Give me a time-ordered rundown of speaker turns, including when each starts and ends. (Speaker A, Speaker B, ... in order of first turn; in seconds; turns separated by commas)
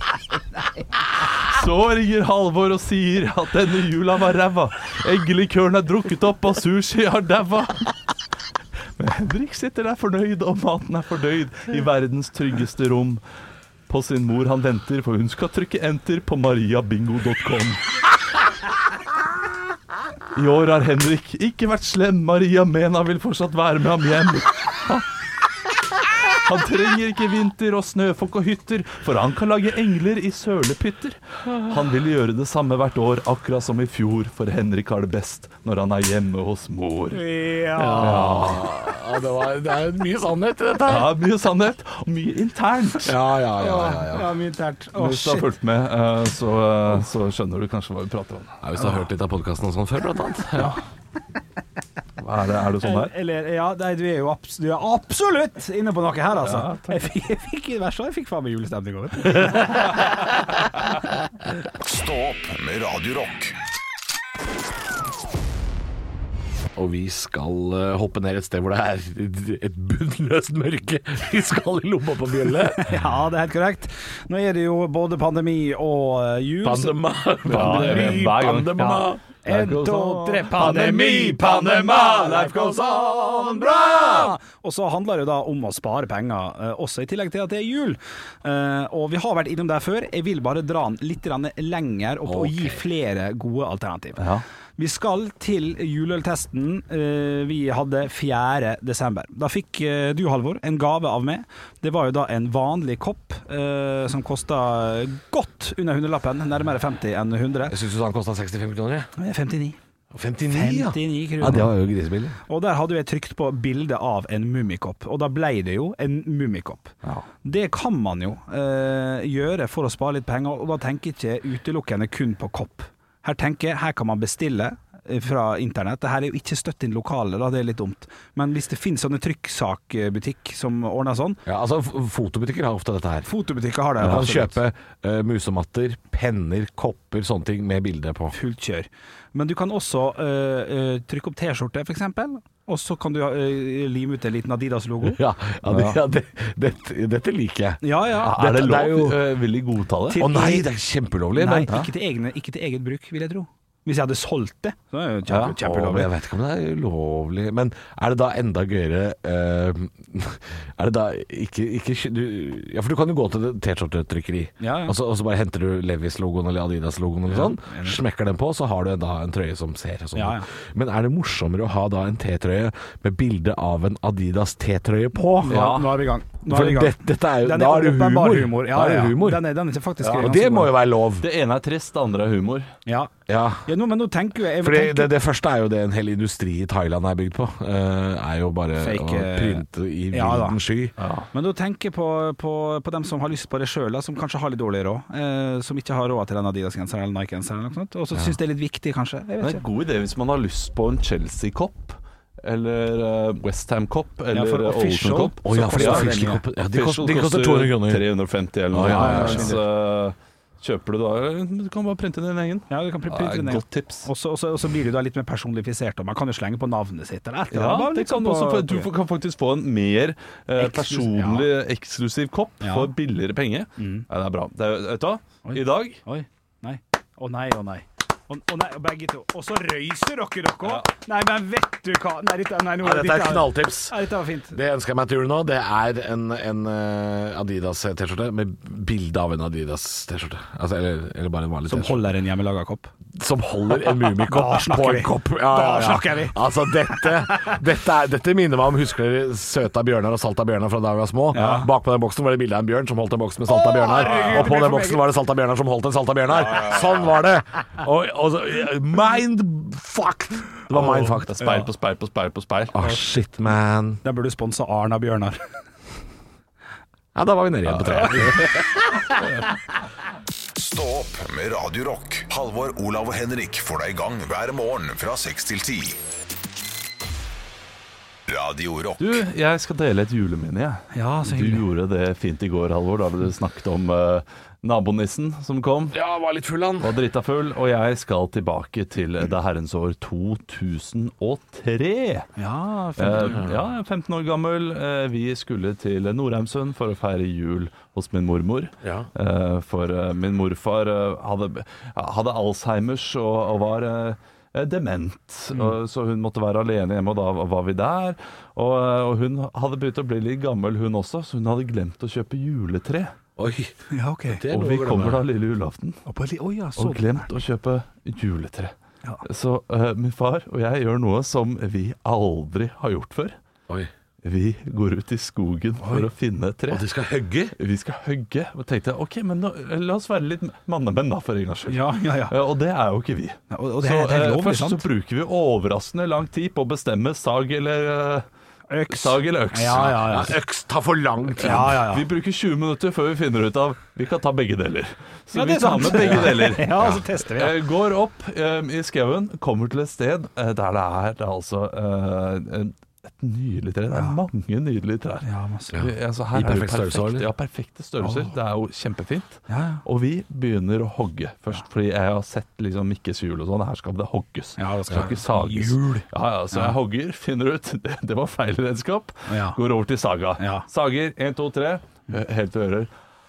Speaker A: 1.3-7.9, Speaker A: 9.0-13.2, Speaker A: 13.9-17.8, Speaker A: 20.4-25.1, Speaker A: 26.3-37.2, Speaker B: 37.1-38.4, Speaker C: 37.8-41.1, Speaker A: 38.0-38.7, Speaker A: 40.9-43.2, Speaker C: 43.0-44.3, Speaker B: 43.6-45.5, Speaker A: 45.0-48.6, Speaker C: 48.6-50.8, Speaker A: 52.2-53.1, Speaker B: 52.8-60.1, Speaker A: 56.4-57.0, Speaker D: 61.8-63.5, Speaker C: 66.8-73.0, Speaker B: 72.7-78.3, Speaker C: 76.6-79.2, Speaker A: 77.5-84.0, Speaker B: 79.5-81.3, Speaker C: 80.5-84.3, Speaker B: 84.0-94.2, Speaker C: 92.2-92.8, Speaker A: 94.2-94.4, Speaker B: 94.8-107.8, Speaker C: 107.7-109.1, Speaker B: 109.2-109.8, Speaker C: 110.1-112.4, Speaker B: 110.5-111.7, Speaker B: 112.5-116.9, Speaker B: 117.4-131.4, Speaker C: 131.5-133.3, Speaker B: 133.2-134.6, Speaker C: 134.0-138.3, Speaker B: 138.3-145.2, Speaker C: 145.0-149.2, Speaker A: 145.6-146.0, Speaker B: 147.8-148.5, Speaker A: 148.2-150.2, Speaker B: 150.1-150.7, Speaker C: 150.2-151.7, Speaker B: 151.4-156.1, Speaker A: 155.3-155.5, Speaker C: 155.5-175.6, Speaker B: 164.6-164.9, Speaker B: 167.3-168.0, Speaker B: 170.2-170.5, Speaker B: 175.4-180.7, Speaker A: 175.5-176.0, Speaker C: 176.5-179.4, Speaker C: 180.1-181.3, Speaker A: 181.2-182.7, Speaker B: 182.9-183.1, Speaker C: 183.3-183.7, Speaker B: 183.7-185.1, Speaker C: 184.6-190.9, Speaker B: 188.8-190.6, Speaker A: 191.0-191.3, Speaker B: 191.3-199.6, Speaker A: 199.4-206.1, Speaker B: 204.3-206.4, Speaker C: 205.4-208.1, Speaker A: 206.7-214.1, Speaker C: 208.7-209.6, Speaker B: 208.8-209.6, Speaker B: 212.7-218.9, Speaker A: 217.5-226.0, Speaker B: 220.6-221.5, Speaker B: 222.6-222.9, Speaker B: 223.8-224.1, Speaker B: 225.4-234.6, Speaker C: 232.8-234.0, Speaker C: 234.5-242.0, Speaker B: 241.7-242.9, Speaker C: 243.2-261.4, Speaker B: 243.8-247.6, Speaker B: 251.3-251.7, Speaker B: 253.5-255.0, Speaker A: 260.7-262.8, Speaker B: 261.4-261.6, Speaker C: 262.7-264.0, Speaker B: 264.0-265.4, Speaker C: 267.1-269.3, Speaker A: 267.7-268.5, Speaker A: 269.1-269.5, Speaker D: 270.6-276.0, Speaker D: 278.3-279.2, Speaker A: 279.0-286.0, Speaker B: 280.9-281.6, Speaker C: 285.9-286.9, Speaker A: 286.8-292.3, Speaker B: 292.4-293.5, Speaker A: 293.0-313.1, Speaker C: 293.2-293.6, Speaker C: 298.8-299.1, Speaker C: 313.4-313.8, Speaker B: 313.9-314.4, Speaker C: 314.3-315.2, Speaker A: 314.5-316.0, Speaker B: 316.1-317.2, Speaker A: 316.8-318.7, Speaker A: 319.2-323.4, Speaker A: 324.2-326.9, Speaker C: 326.7-327.5, Speaker A: 327.6-338.3, Speaker B: 331.7-332.4, Speaker B: 333.5-334.8, Speaker B: 338.7-340.3, Speaker A: 338.9-340.3, Speaker C: 339.7-341.8, Speaker A: 341.4-372.9, Speaker B: 341.4-342.1, Speaker B: 345.3-347.6, Speaker C: 346.0-347.0, Speaker B: 355.2-355.8, Speaker C: 355.7-357.3, Speaker B: 358.0-358.3, Speaker B: 359.5-359.8, Speaker B: 364.6-366.8, Speaker B: 369.3-369.6, Speaker B: 370.4-370.6